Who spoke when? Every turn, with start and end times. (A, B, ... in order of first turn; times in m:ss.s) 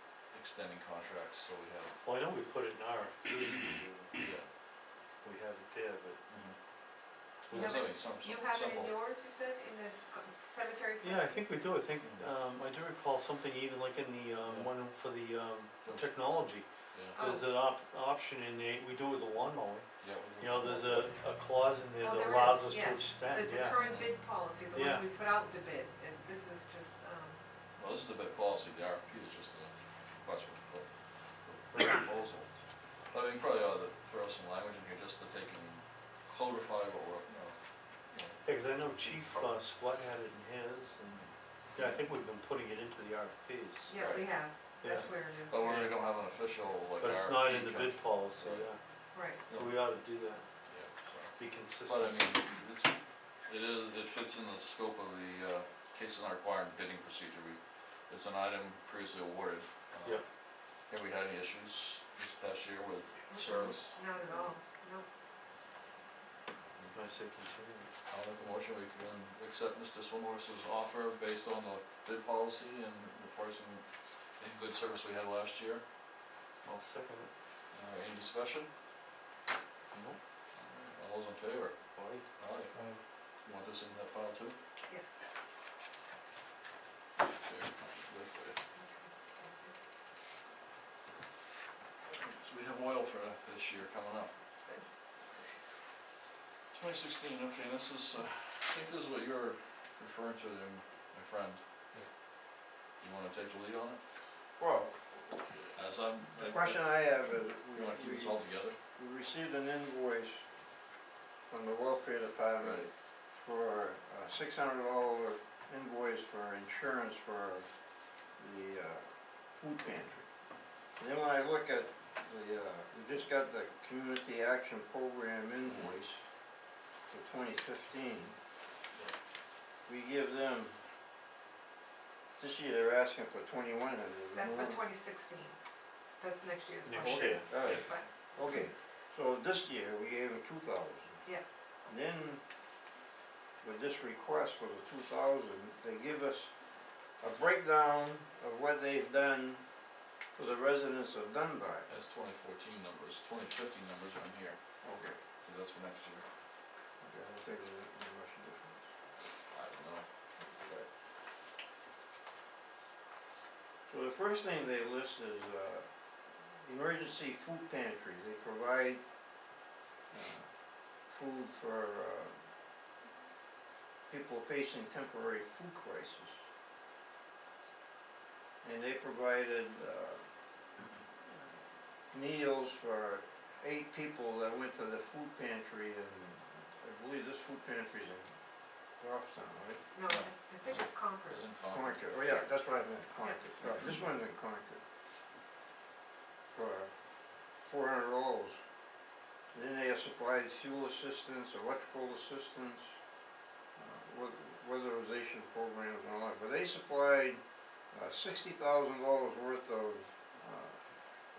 0:00.3-0:02.0 A
0:02.0-0:04.2 B
0:04.2-0:04.5 A
0:05.2-0:06.2 B
0:06.3-0:06.6 A
0:07.5-0:07.8 B
0:07.5-0:09.0 A
0:07.5-0:11.4 C
0:11.0-0:19.9 B
0:12.0-0:12.3 A
0:15.8-0:16.4 A
0:16.9-0:17.2 A
0:17.2-0:17.5 C
0:20.0-0:21.1 A
0:20.4-0:23.8 B
0:22.0-0:27.4 C
0:23.8-0:24.2 A
0:24.7-0:25.0 B
0:27.8-0:32.5 A
0:33.1-0:39.6 A
0:38.4-0:44.0 B
0:41.1-0:42.0 A
0:43.9-0:45.8 C
0:43.9-0:44.4 A
0:44.8-0:46.0 B
0:45.5-0:48.7 A
0:47.0-0:48.8 B
0:49.1-0:49.4 C
0:49.5-0:50.4 B
0:49.5-0:49.8 A
0:50.7-1:00.2 A
0:51.4-0:52.3 B
1:00.9-1:04.5 A
1:03.3-1:05.1 C
1:06.9-1:07.9 B
1:08.1-1:13.8 A
1:14.4-1:15.8 A
1:16.6-1:17.3 B
1:17.7-1:18.7 A
1:19.9-1:20.2 B
1:20.5-1:21.8 A
1:22.0-1:22.3 B
1:22.4-1:22.7 A
1:23.4-1:24.6 A
1:27.4-1:28.6 A
1:28.8-1:29.7 C
1:32.1-1:34.3 A
1:36.7-1:41.6 A
1:43.0-1:44.0 A
1:44.6-1:45.6 D
1:45.7-1:47.2 A
1:46.4-1:50.4 D
1:47.7-1:48.8 A
1:51.5-1:57.7 D
1:52.6-1:52.9 A
1:58.4-2:00.3 D
2:01.0-2:06.2 D
2:05.6-2:05.9 A
2:07.1-2:08.4 D
2:09.9-2:10.8 D
2:12.4-2:14.8 D
2:14.3-2:15.6 C
2:16.2-2:18.1 C
2:16.8-2:17.6 B
2:16.9-2:21.2 D
2:21.9-2:22.4 D
2:23.6-2:26.5 D
2:27.2-2:29.7 D
2:30.4-2:31.9 D
2:31.9-2:34.6 A
2:34.8-2:35.2 D
2:35.4-2:36.2 A
2:37.0-2:38.8 D
2:39.5-2:40.0 A
2:40.4-2:40.9 D
2:43.9-2:45.9 D
2:46.4-2:49.0 D
2:50.1-2:50.5 D
2:51.0-2:52.4 D
2:54.1-2:56.4 D
2:58.6-3:00.2 D
3:01.2-3:08.3 D
3:09.0-3:09.8 D
3:09.9-3:11.5 C
3:10.1-3:12.0 A
3:11.7-3:14.8 D
3:16.5-3:16.9 D
3:17.6-3:18.6 D
3:19.5-3:22.9 D
3:23.8-3:30.8 D